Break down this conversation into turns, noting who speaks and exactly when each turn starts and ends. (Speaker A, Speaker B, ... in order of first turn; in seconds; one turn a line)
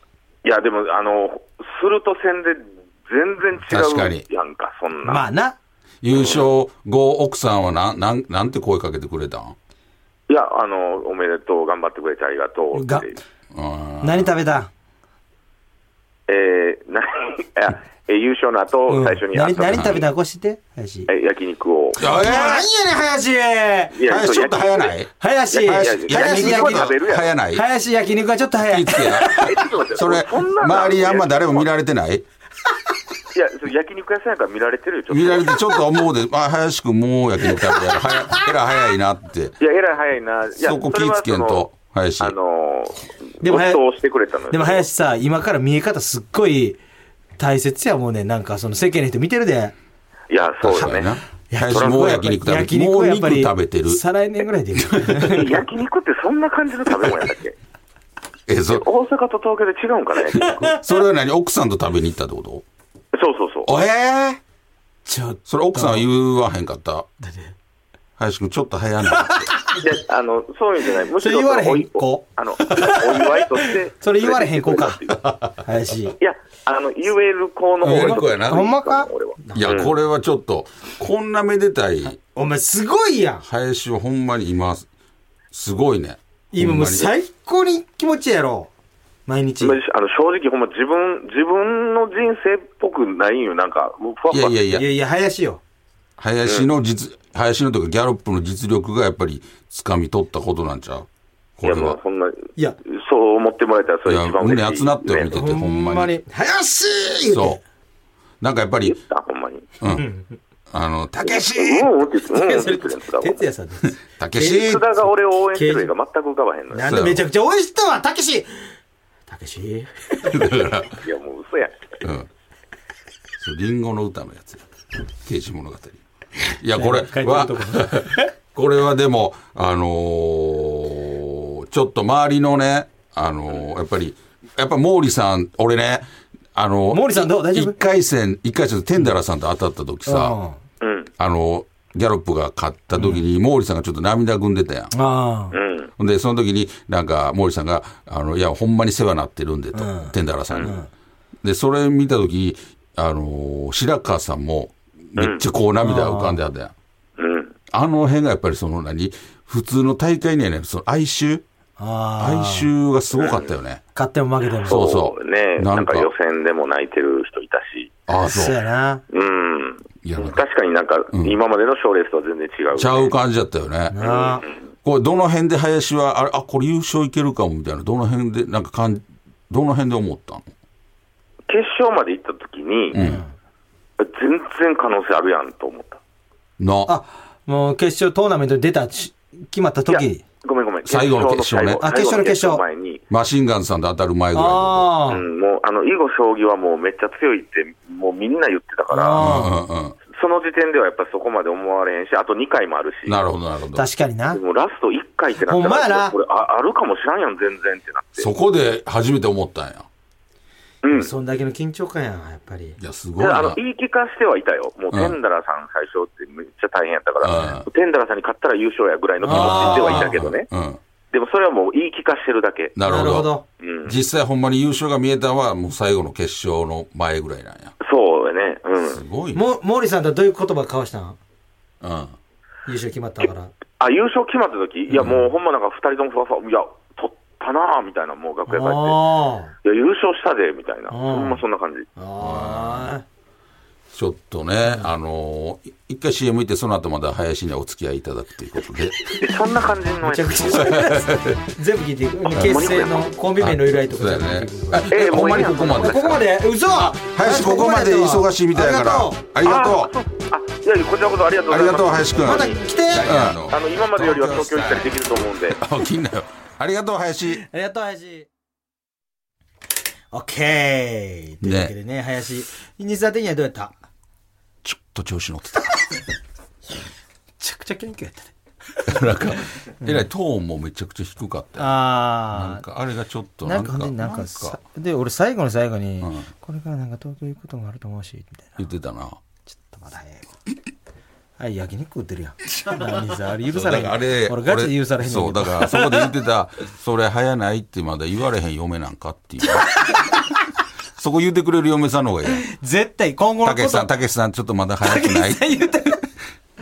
Speaker A: 0.4-5.3
Speaker B: 3.7-4.2
Speaker C: 5.0-5.6
Speaker B: 6.0-9.6
Speaker A: 6.1-6.5
Speaker A: 10.3-13.2
Speaker C: 12.7-13.2
Speaker B: 13.5-14.4
Speaker C: 14.0-14.7
Speaker A: 16.3-20.1
Speaker C: 18.9-21.1
Speaker B: 19.7-20.0
Speaker A: 21.1-22.0
Speaker B: 22.0-22.7
Speaker C: 22.0-24.0
Speaker A: 23.9-25.0
Speaker B: 24.1-27.6
Speaker C: 25.2-26.9
Speaker A: 25.5-27.4
Speaker C: 27.5-29.6
Speaker B: 28.6-32.2
Speaker A: 29.1-31.7
Speaker A: 33.3-35.7
Speaker B: 35.1-39.6
Speaker C: 37.7-38.5
Speaker A: 39.6-41.7
Speaker B: 40.6-42.4
Speaker A: 42.2-44.9
Speaker C: 43.4-43.8
Speaker C: 44.5-46.8
Speaker C: 47.4-49.7
Speaker A: 50.3-51.1
Speaker B: 50.6-54.0
Speaker C: 51.5-55.6
Speaker A: 51.7-52.1
Speaker B: 54.8-55.3
Speaker A: 55.2-57.6
Speaker B: 58.5-58.9
Speaker A: 58.7-60.8
Speaker C: 60.5-60.7
Speaker B: 60.8-62.6
Speaker A: 63.1-63.7
Speaker B: 63.7-64.4
Speaker C: 65.0-66.1
Speaker B: 65.5-67.1
Speaker C: 67.2-67.5
Speaker B: 68.2-69.5
Speaker C: 69.1-69.8
Speaker A: 69.8-75.2
Speaker C: 71.2-75.0
Speaker B: 75.2-75.6
Speaker C: 75.6-76.2
Speaker A: 76.2-79.9
Speaker B: 77.8-78.7
Speaker C: 77.8-79.7
Speaker B: 79.5-82.2
Speaker C: 82.0-83.4
Speaker B: 83.4-84.9
Speaker B: 85.5-87.1
Speaker C: 86.5-88.7
Speaker C: 89.3-89.8
Speaker A: 89.6-94.6
Speaker B: 94.3-94.8
Speaker C: 94.7-95.6
Speaker B: 96.2-101.1
Speaker B: 101.6-102.0
Speaker A: 101.6-105.4
Speaker B: 104.1-106.1
Speaker C: 105.3-107.6
Speaker B: 107.3-107.6
Speaker B: 108.4-109.0
Speaker A: 108.8-109.7
Speaker B: 109.8-110.0
Speaker C: 109.9-110.4
Speaker B: 110.7-111.9
Speaker A: 111.2-113.4
Speaker C: 112.3-114.7
Speaker B: 114.1-114.9
Speaker A: 114.4-116.9
Speaker C: 115.5-115.9
Speaker C: 116.7-118.7
Speaker B: 116.8-117.3
Speaker C: 119.3-120.5
Speaker B: 120.2-121.0
Speaker A: 120.9-122.0
Speaker B: 122.0-122.3
Speaker B: 123.4-124.6
Speaker B: 125.2-140.4
Speaker C: 126.7-128.3
Speaker C: 136.9-137.8
Speaker C: 140.1-140.6
Speaker A: 140.8-141.1
Speaker B: 141.2-144.9
Speaker C: 144.9-145.6
Speaker A: 145.5-145.9
Speaker B: 146.0-150.8
Speaker C: 149.7-150.9
Speaker B: 151.4-156.7
Speaker A: 155.2-155.4
Speaker C: 155.8-156.4
Speaker A: 157.2-157.5
Speaker B: 157.7-161.4
Speaker C: 161.8-162.7
Speaker B: 162.2-163.8
Speaker A: 163.1-163.5
Speaker C: 163.9-164.8
Speaker A: 164.6-167.9
Speaker B: 164.7-166.1
Speaker B: 168.1-168.6
Speaker C: 168.2-169.0
Speaker A: 169.1-173.1
Speaker B: 170.0-170.4
Speaker B: 171.1-171.4
Speaker B: 172.8-174.0
Speaker C: 173.9-174.4
Speaker A: 174.0-174.6
Speaker B: 174.8-180.5
Speaker A: 181.5-183.0
Speaker B: 182.9-183.2
Speaker C: 182.9-183.3
Speaker A: 184.0-186.0
Speaker B: 186.6-186.9
Speaker C: 186.9-190.2
Speaker A: 189.9-193.0
Speaker B: 190.8-191.8
Speaker C: 191.8-192.6
Speaker B: 193.1-194.9
Speaker C: 194.3-195.2
Speaker A: 195.1-199.3
Speaker C: 198.9-199.6
Speaker B: 199.2-200.0
Speaker A: 200.1-203.2
Speaker B: 203.1-203.8
Speaker C: 203.8-204.4
Speaker A: 204.3-208.3
Speaker C: 205.5-206.2
Speaker B: 208.2-209.9
Speaker A: 210.8-211.1
Speaker C: 210.9-212.8
Speaker B: 212.8-213.6
Speaker A: 213.2-220.5
Speaker B: 214.9-215.2
Speaker B: 217.2-217.7
Speaker C: 219.2-220.2
Speaker B: 219.2-220.8
Speaker A: 221.1-222.8
Speaker B: 222.8-223.3
Speaker C: 222.9-223.4
Speaker A: 223.6-224.0
Speaker B: 223.8-227.7
Speaker A: 227.8-229.0
Speaker B: 228.9-229.4
Speaker C: 229.3-231.2
Speaker B: 231.8-232.2
Speaker C: 232.7-233.5
Speaker A: 233.8-239.0
Speaker B: 235.0-235.3
Speaker C: 238.5-239.5
Speaker A: 239.6-241.9
Speaker C: 240.9-241.4
Speaker C: 242.0-243.1
Speaker B: 242.2-242.9
Speaker B: 243.9-249.2
Speaker A: 249.1-250.8
Speaker C: 250.0-259.2
Speaker B: 250.5-251.4
Speaker A: 252.3-253.1
Speaker B: 253.4-256.2
Speaker A: 254.9-256.2
Speaker B: 257.1-259.9
Speaker A: 259.4-262.6
Speaker B: 261.5-267.4
Speaker C: 262.2-263.3
Speaker A: 263.4-265.6
Speaker C: 267.3-268.3
Speaker C: 270.1-273.8
Speaker B: 271.4-271.7
Speaker B: 274.6-276.0
Speaker C: 277.4-278.3
Speaker B: 278.9-284.6
Speaker C: 279.8-280.1
Speaker C: 281.6-282.6
Speaker C: 283.4-288.7
Speaker B: 286.0-286.3
Speaker B: 288.6-289.2
Speaker C: 289.5-290.4
Speaker C: 291.4-296.1
Speaker B: 292.6-299.8
Speaker C: 299.8-300.1
Speaker B: 301.0-302.5
Speaker C: 302.3-303.9
Speaker B: 303.4-305.6
Speaker C: 304.8-306.1